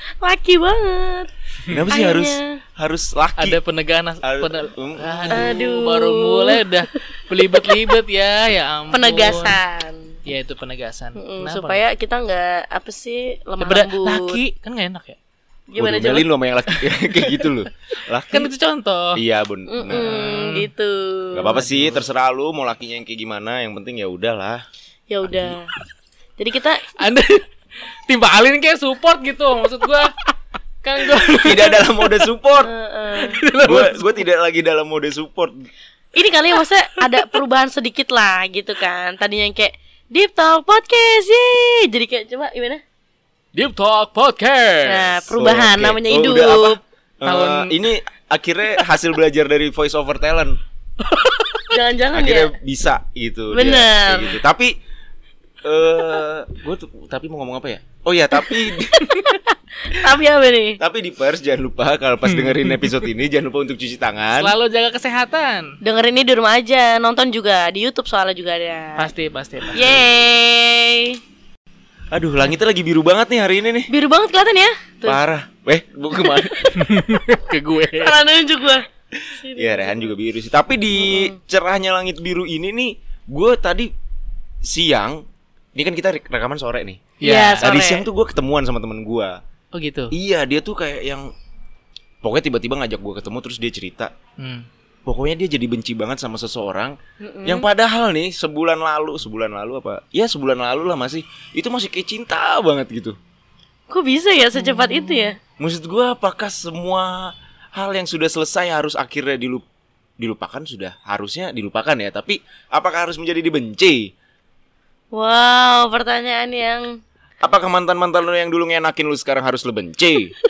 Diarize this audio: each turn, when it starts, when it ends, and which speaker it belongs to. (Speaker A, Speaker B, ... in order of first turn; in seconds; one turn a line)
Speaker A: 0.2-1.3
Speaker B: 1.7-3.6
Speaker A: 1.9-2.6
Speaker C: 3.4-9.6
Speaker B: 4.2-5.5
Speaker A: 5.3-6.7
Speaker A: 7.5-7.9
Speaker A: 8.9-10.1
Speaker C: 10.2-11.8
Speaker A: 11.2-14.4
Speaker C: 13.6-15.2
Speaker A: 15.7-16.3
Speaker B: 15.8-18.5
Speaker C: 18.3-19.2
Speaker B: 19.2-20.2
Speaker A: 19.7-21.6
Speaker C: 19.9-20.7
Speaker B: 21.3-24.6
Speaker C: 21.5-22.0
Speaker A: 25.1-25.7
Speaker B: 25.2-25.6
Speaker A: 26.4-27.0
Speaker C: 26.9-30.1
Speaker C: 30.8-31.8
Speaker B: 31.4-32.7
Speaker A: 32.6-33.4
Speaker C: 33.2-34.2
Speaker B: 33.6-35.7
Speaker A: 36.1-42.8
Speaker C: 43.5-45.3
Speaker A: 44.8-46.8
Speaker B: 45.3-50.6
Speaker C: 47.2-47.8
Speaker C: 51.1-51.7
Speaker A: 51.7-52.5
Speaker B: 52.1-54.7
Speaker A: 53.5-54.4
Speaker B: 55.6-59.1
Speaker A: 58.5-60.8
Speaker B: 60.8-64.5
Speaker C: 62.3-62.9
Speaker C: 64.4-65.8
Speaker A: 65.8-69.1
Speaker C: 69.0-70.0
Speaker A: 69.7-71.2
Speaker B: 72.1-73.9
Speaker A: 73.9-75.2
Speaker B: 75.0-76.7
Speaker A: 76.2-77.2
Speaker C: 76.7-78.2
Speaker A: 77.8-80.1
Speaker B: 79.2-83.9
Speaker B: 84.6-85.2
Speaker B: 85.8-87.1
Speaker C: 87.2-87.7
Speaker A: 87.2-88.1
Speaker B: 87.6-89.4
Speaker C: 89.7-90.1
Speaker B: 90.1-91.3
Speaker B: 92.2-94.1
Speaker C: 94.4-94.7
Speaker B: 95.1-103.2
Speaker A: 97.2-97.7
Speaker A: 103.9-105.4
Speaker C: 104.7-105.3
Speaker B: 105.6-109.6
Speaker B: 110.2-114.1
Speaker A: 115.1-117.0
Speaker B: 117.4-120.3